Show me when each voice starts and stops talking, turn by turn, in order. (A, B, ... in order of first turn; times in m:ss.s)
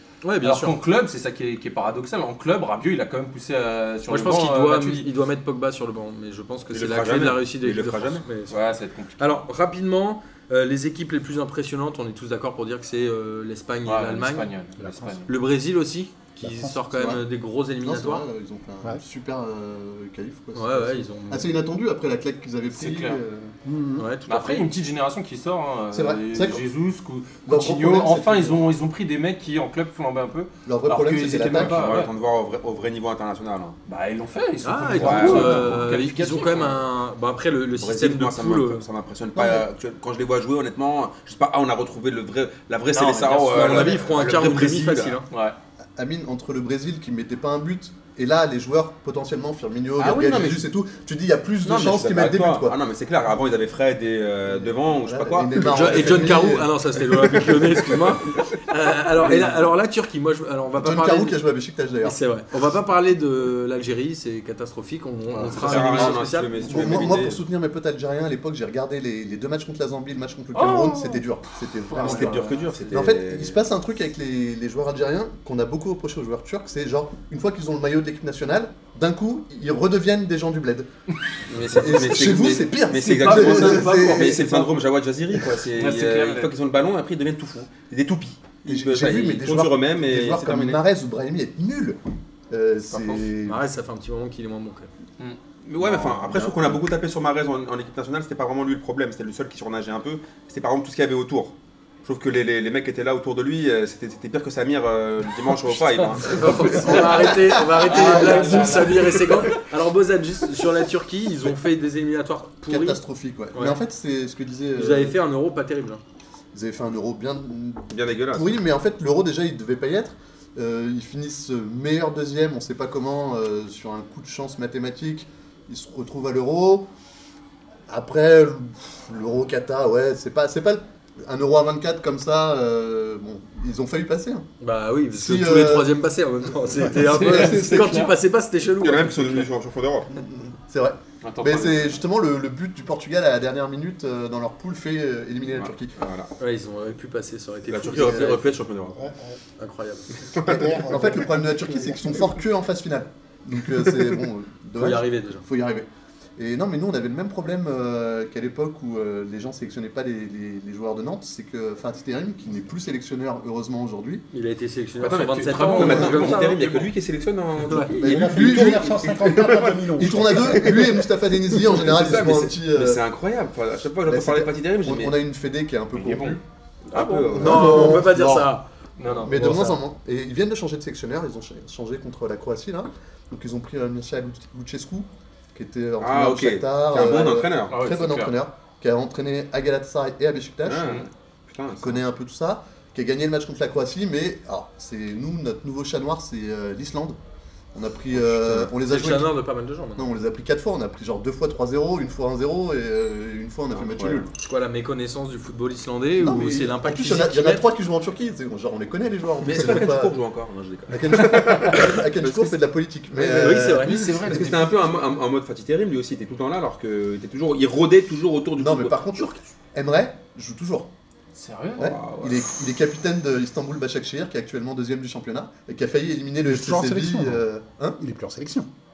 0:00.2-0:00.8 A
0:00.4-0:05.1 B
0:04.1-0:08.6 A
0:06.7-0:08.2 C
0:08.5-0:09.4 B
0:09.2-0:14.5 A
0:13.8-0:15.3 B
0:14.8-0:15.2 D
0:15.3-0:18.3 A
0:16.4-0:16.9 D
0:16.9-0:17.2 E
0:17.8-0:23.6 E
0:20.5-0:21.5 A
0:22.7-0:23.2 B
0:23.6-0:24.1 D
0:24.0-0:24.7 A
0:24.3-0:32.1 B
0:25.9-0:26.6 E
0:27.5-0:28.7 E
0:30.7-0:32.0 E
0:31.5-0:33.8 C
0:33.9-0:36.8 B
0:34.6-0:38.8 A
0:35.0-0:35.7 C
0:37.8-0:45.2 C
0:42.9-0:44.4 B
0:43.4-0:45.3 A
0:45.3-0:45.6 B
0:46.0-0:52.8 E
0:50.0-0:50.6 C
0:51.6-0:56.5 C
0:54.5-0:56.8 E
0:55.6-1:01.4 A
0:57.2-0:58.5 C
0:59.2-0:59.6 E
1:00.8-1:02.2 E
1:02.0-1:07.0 A
1:05.4-1:20.9 E
1:05.5-1:07.4 C
1:10.5-1:11.2 B
1:11.9-1:12.8 B
1:12.0-1:13.6 C
1:21.5-1:30.8 C
1:21.6-1:24.8 E
1:23.0-1:24.6 B
1:25.7-1:26.5 B
1:28.7-1:32.0 E
1:32.5-1:33.6 E
1:32.9-1:33.3 B
1:33.4-1:34.9 A
1:35.6-1:41.5 C
1:42.0-1:47.1 C
1:46.2-1:53.0 A
1:46.3-1:49.0 E
1:46.8-1:49.6 B
1:52.7-1:55.2 E
1:53.5-1:53.8 A
1:54.8-1:56.0 A
1:56.5-2:06.9 E
1:57.9-1:58.5 C
2:07.9-2:14.5 E
2:14.6-2:19.5 A
2:15.1-2:15.9 E
2:16.8-2:17.1 D
2:16.8-2:18.2 E
2:17.2-2:18.1 B
2:18.7-2:20.2 C
2:20.1-2:26.0 E
2:21.2-2:22.0 B
2:25.5-2:26.3 C
2:26.4-2:28.6 A
2:27.7-2:29.0 C
2:28.0-2:28.2 E
2:28.9-2:29.4 D
2:29.6-2:30.2 A
2:30.2-2:32.4 D
2:30.2-2:30.6 C
2:30.6-2:44.2 E
2:34.8-2:35.4 A
2:44.3-2:46.7 A
2:45.0-2:46.9 B
2:45.7-2:55.2 C
2:47.6-2:48.0 A
2:48.0-2:51.0 D
2:48.0-2:53.0 E
2:54.1-2:56.4 E
2:56.0-2:56.4 B
2:56.1-2:56.4 C
2:56.9-2:58.1 C
2:57.0-2:59.8 A
2:57.2-2:58.5 E
2:59.0-2:59.6 B
2:59.2-3:11.1 E
3:06.0-3:07.8 C
3:07.7-3:08.4 B
3:10.6-3:12.0 C
3:11.7-3:17.2 E
3:17.7-3:19.4 E
3:18.4-3:18.7 C
3:18.5-3:20.1 A
3:20.0-3:24.3 E
3:23.9-3:24.3 C
3:24.3-3:27.6 A
3:26.2-3:30.2 E
3:29.4-3:32.6 C
3:30.9-3:34.7 E
3:33.2-3:34.6 A
3:33.8-3:34.5 B
3:34.2-3:39.4 C
3:38.6-3:40.9 E
3:41.3-3:42.0 B
3:41.8-3:48.0 E
3:41.9-3:42.4 C
3:46.4-3:47.5 D
3:48.0-3:48.7 D